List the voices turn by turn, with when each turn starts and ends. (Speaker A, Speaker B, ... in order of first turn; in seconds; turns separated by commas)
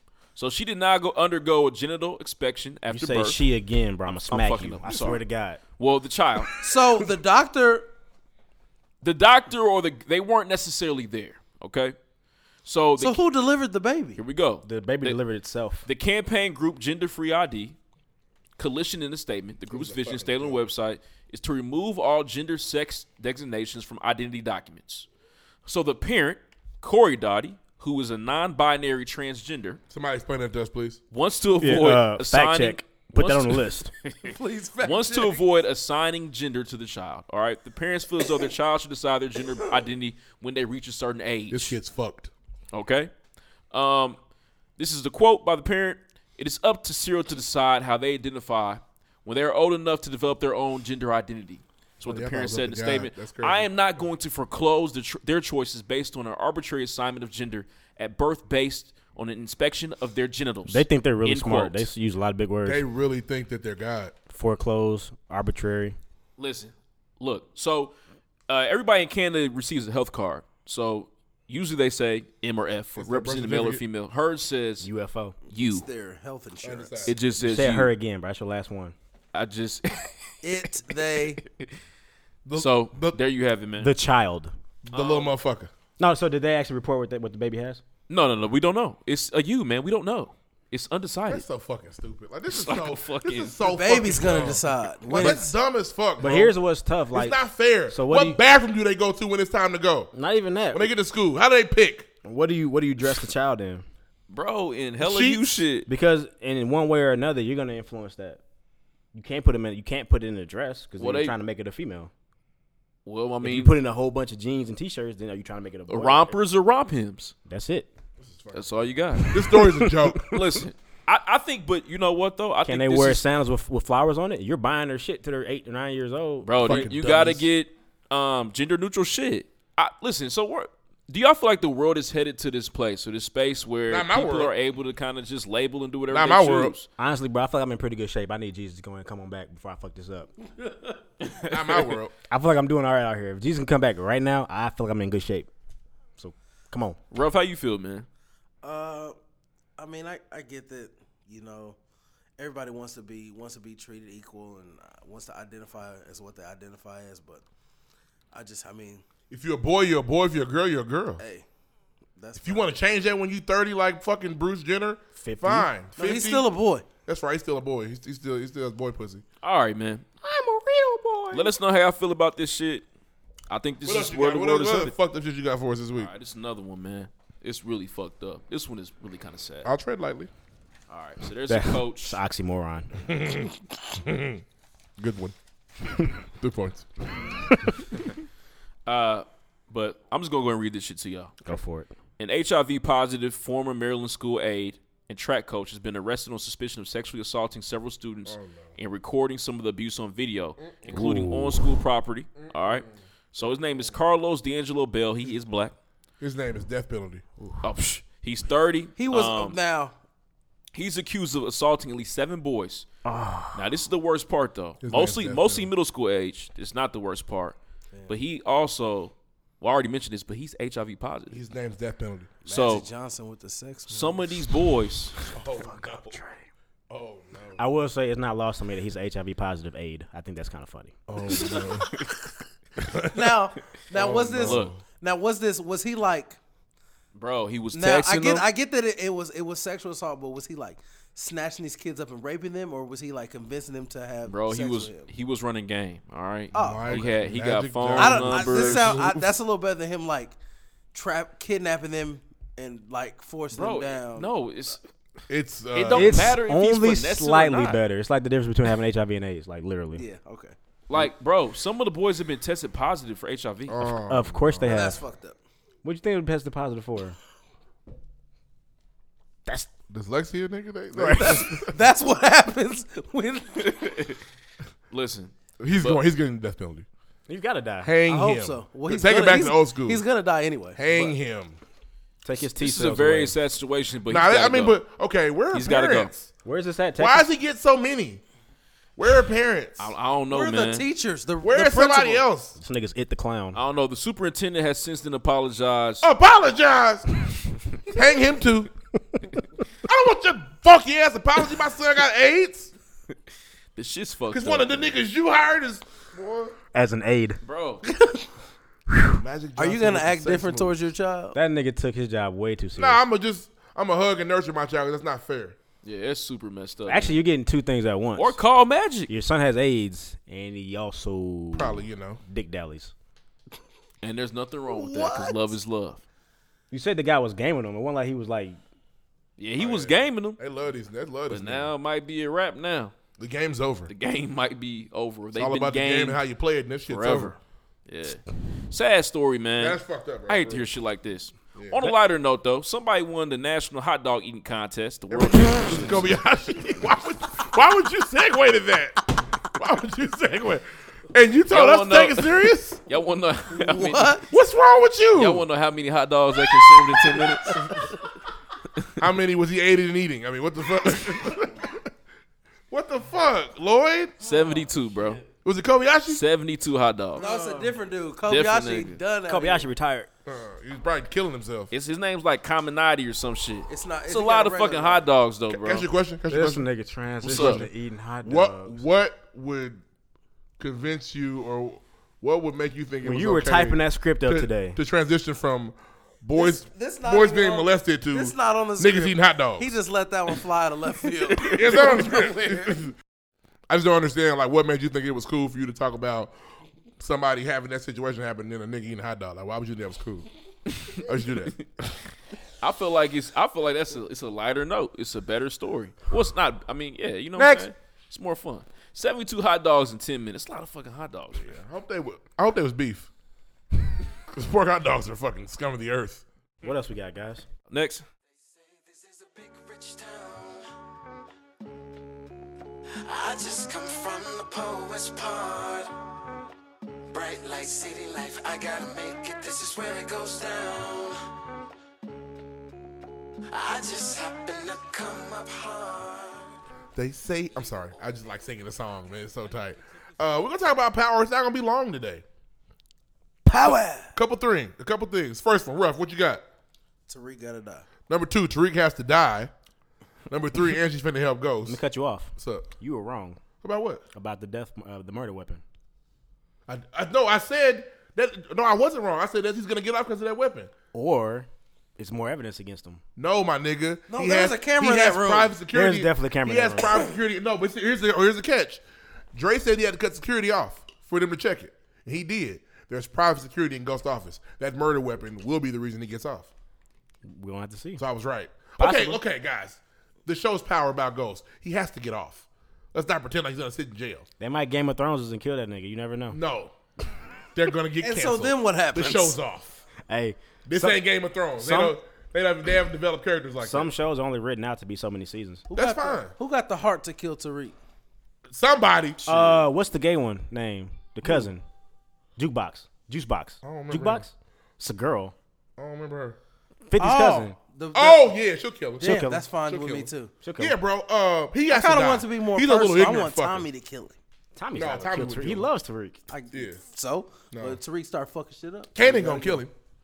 Speaker A: 0.4-3.4, Speaker B: 2.9-5.6, Speaker A: 4.1-5.2, Speaker A: 5.8-6.8, Speaker C: 6.6-7.9, Speaker A: 9.0-12.0, Speaker A: 12.7-13.2, Speaker C: 13.0-14.2, Speaker A: 14.2-15.2, Speaker B: 14.6-15.9, Speaker A: 15.9-17.8, Speaker A: 18.6-25.1, Speaker D: 19.7-20.6, Speaker A: 25.7-29.8, Speaker D: 29.9-31.0, Speaker A: 31.1-41.8, Speaker B: 31.6-33.9, Speaker C: 34.3-35.4, Speaker D: 41.5-42.3, Speaker A: 42.7-43.1, Speaker A: 43.7-44.2, Speaker A: 44.8-61.9, Speaker D: 52.1-53.7, Speaker B: 60.7-62.9, Speaker D: 62.7-64.1, Speaker B: 64.3-66.0, Speaker A: 66.4-67.9, Speaker A: 68.5-74.9, Speaker D: 73.0-73.8, Speaker B: 74.8-75.3, Speaker A: 75.5-75.8, Speaker C: 75.5-77.1, Speaker D: 76.6-77.2, Speaker A: 77.1-77.9, Speaker B: 77.4-79.0, Speaker A: 79.3-80.3, Speaker C: 80.4-81.4, Speaker D: 82.5-83.2, Speaker A: 82.6-83.9, Speaker B: 83.8-84.5, Speaker D: 84.9-85.7, Speaker A: 84.9-85.3, Speaker B: 86.0-87.8, Speaker A: 88.1-91.5, Speaker D: 91.3-96.6, Speaker A: 92.5-93.6, Speaker C: 93.6-95.5, Speaker B: 96.2-98.4, Speaker D: 97.1-100.1, Speaker B: 100.1-100.9, Speaker D: 100.7-102.1, Speaker B: 102.2-103.8, Speaker A: 104.3-105.9, Speaker D: 105.0-105.4, Speaker B: 105.9-108.4, Speaker B: 109.1-112.1, Speaker A: 111.0-111.4, Speaker A: 113.0-113.8, Speaker B: 113.4-116.3, Speaker A: 115.9-117.3, Speaker B: 117.5-117.9, Speaker D: 118.2-118.7, Speaker A: 118.5-119.4, Speaker D: 119.3-120.4, Speaker B: 119.4-120.0, Speaker A: 120.3-123.2, Speaker B: 122.7-127.0, Speaker A: 126.4-136.9, Speaker D: 126.6-127.5, Speaker D: 133.9-134.5, Speaker D: 136.1-136.7, Speaker B: 137.0-140.3, Speaker A: 141.2-142.0, Speaker D: 141.5-142.1, Speaker B: 142.3-145.5, Speaker B: 146.2-147.0, Speaker A: 147.1-148.1, Speaker C: 148.6-149.2, Speaker C: 149.8-151.8, Speaker C: 152.4-157.4, Speaker C: 158.3-159.0, Speaker D: 159.3-161.2, Speaker C: 161.2-161.5, Speaker C: 162.2-163.0, Speaker D: 162.4-166.5, Speaker B: 165.2-165.7, Speaker C: 166.0-166.9, Speaker D: 167.1-169.2, Speaker A: 169.4-170.1, Speaker B: 170.2-171.5, Speaker A: 171.3-172.8, Speaker A: 173.5-174.9, Speaker D: 173.8-176.1, Speaker A: 175.9-179.7, Speaker D: 179.6-180.3, Speaker A: 180.9-182.2, Speaker B: 181.5-182.9, Speaker D: 183.0-184.4, Speaker D: 185.0-185.3, Speaker D: 186.3-187.2, Speaker A: 188.9-191.6, Speaker B: 191.5-191.9, Speaker A: 192.2-205.8, Speaker D: 198.3-198.8, Speaker D: 200.7-201.1, Speaker B: 200.9-201.6, Speaker D: 202.4-202.9, Speaker D: 206.2-207.2, Speaker A: 207.6-209.6, Speaker C: 209.0-209.9, Speaker A: 210.7-212.9, Speaker B: 213.1-213.7, Speaker A: 213.5-217.6, Speaker D: 214.8-215.7, Speaker A: 218.1-221.4, Speaker D: 221.3-222.3, Speaker C: 222.4-224.3, Speaker A: 222.5-222.9, Speaker A: 223.9-225.2, Speaker D: 225.3-226.2, Speaker B: 225.6-226.4, Speaker D: 226.9-227.6, Speaker B: 227.6-231.0, Speaker D: 231.1-231.9, Speaker D: 232.8-233.3, Speaker C: 233.1-236.4, Speaker D: 233.9-234.8, Speaker A: 234.4-234.7, Speaker A: 237.1-238.4, Speaker C: 237.7-245.1, Speaker A: 244.3-249.0, Speaker C: 246.5-247.1, Speaker D: 246.6-249.3, Speaker C: 247.9-250.4, Speaker C: 250.9-254.3, Speaker A: 253.5-254.8, Speaker D: 255.3-256.3, Speaker A: 255.7-257.8, Speaker B: 255.9-260.0, Speaker C: 259.9-260.6, Speaker A: 260.9-263.9, Speaker D: 263.7-264.8, Speaker B: 264.1-265.0, Speaker C: 264.7-265.4, Speaker B: 265.8-267.2, Speaker D: 269.9-271.8, Speaker B: 271.0-271.4, Speaker C: 271.2-273.8, Speaker A: 273.6-274.2, Speaker A: 274.9-276.0, Speaker D: 275.6-276.9, Speaker B: 277.3-277.9, Speaker D: 277.8-280.0, Speaker C: 278.1-281.1, Speaker D: 280.8-281.6, Speaker B: 282.2-283.4, Speaker A: 282.4-284.8, Speaker D: 284.1-286.3, Speaker A: 285.5-286.1, Speaker B: 286.4-287.3, Speaker D: 287.0-288.2, Speaker D: 289.0-289.9, Speaker A: 289.8-290.9, Speaker C: 290.3-292.2, Speaker D: 291.4-292.6, Speaker B: 292.6-293.6, Speaker A: 293.5-296.1, Speaker D: 296.0-297.1, Speaker D: 297.9-298.7, Speaker D: 299.9-302.7, Speaker A: 303.8-305.0, Speaker D: 304.3-306.6, Speaker B: 306.7-307.4, Speaker A: 307.4-307.8, Speaker D: 309.1-310.9, Speaker C: 309.6-311.4, Speaker B: 311.3-313.0, Speaker D: 312.8-315.6, Speaker A: 315.8-317.2, Speaker B: 316.9-318.4, Speaker A: 318.2-319.1, Speaker B: 319.1-322.9, Speaker D: 321.6-322.2, Speaker A: 324.0-326.0, Speaker C: 324.7-325.5, Speaker B: 326.7-328.6, Speaker A: 329.4-330.4, Speaker D: 329.6-331.7, Speaker A: 331.3-332.9, Speaker D: 333.2-333.9, Speaker A: 333.9-336.2, Speaker D: 335.4-337.4, Speaker A: 336.9-346.1, Speaker D: 339.6-340.7, Speaker D: 341.6-341.9, Speaker D: 345.1-352.8, Speaker A: 351.5-354.2, Speaker C: 353.6-354.2, Speaker D: 354.3-355.5, Speaker A: 355.2-357.9, Speaker D: 356.5-357.7, Speaker D: 359.0-361.9, Speaker D: 362.7-364.2, Speaker A: 364.2-365.2, Speaker D: 365.3-366.2, Speaker A: 366.1-367.2, Speaker C: 367.2-369.7, Speaker B: 367.2-367.7, Speaker A: 368.3-369.0, Speaker B: 369.3-370.1, Speaker D: 370.3-371.7, Speaker A: 371.7-375.9, Speaker C: 373.7-375.1, Speaker D: 375.5-376.7, Speaker B: 376.3-378.8, Speaker A: 377.2-377.6, Speaker D: 377.3-377.7, Speaker D: 378.2-379.8, Speaker D: 380.6-389.7, Speaker B: 383.0-384.8, Speaker C: 386.4-391.9, Speaker D: 391.4-392.9, Speaker D: 393.7-396.3, Speaker D: 397.0-400.3, Speaker D: 401.0-401.9, Speaker A: 402.6-411.6, Speaker B: 407.4-407.7, Speaker D: 411.4-413.1, Speaker D: 414.3-416.2, Speaker B: 416.6-417.5, Speaker A: 417.7-418.1, Speaker E: 418.8-420.6, Speaker E: 423.1-425.9, Speaker E: 427.1-431.1, Speaker E: 433.5-436.4, Speaker D: 436.9-442.2, Speaker B: 443.5-444.1, Speaker D: 444.1-446.4, Speaker C: 447.1-447.9, Speaker D: 448.1-449.5, Speaker D: 450.3-451.8, Speaker B: 451.7-453.4, Speaker D: 452.4-452.7, Speaker D: 453.6-454.1, Speaker B: 454.1-455.6, Speaker D: 456.7-460.7, Speaker B: 460.9-463.0, Speaker D: 463.2-468.8, Speaker C: 464.1-465.6, Speaker B: 465.7-466.9, Speaker D: 469.3-476.5, Speaker B: 477.2-478.0, Speaker D: 478.0-484.3, Speaker B: 478.8-479.2, Speaker B: 484.4-486.4, Speaker D: 486.3-486.7, Speaker D: 487.6-489.8, Speaker C: 488.0-489.4, Speaker B: 490.1-491.0, Speaker D: 490.7-493.9, Speaker B: 491.6-492.0, Speaker B: 493.6-495.6, Speaker C: 495.7-497.8, Speaker D: 495.7-496.4, Speaker D: 498.5-499.6, Speaker B: 499.3-501.6, Speaker B: 502.4-505.3, Speaker D: 503.6-504.2, Speaker D: 505.8-506.4, Speaker B: 506.9-507.6, Speaker C: 507.0-508.3, Speaker D: 507.9-513.7, Speaker C: 509.0-510.3, Speaker B: 509.0-509.4, Speaker B: 510.4-510.8, Speaker C: 511.7-514.2, Speaker B: 514.6-516.2, Speaker D: 514.7-515.7, Speaker C: 516.3-519.6, Speaker D: 516.5-516.8, Speaker D: 517.5-517.8, Speaker D: 519.0-519.7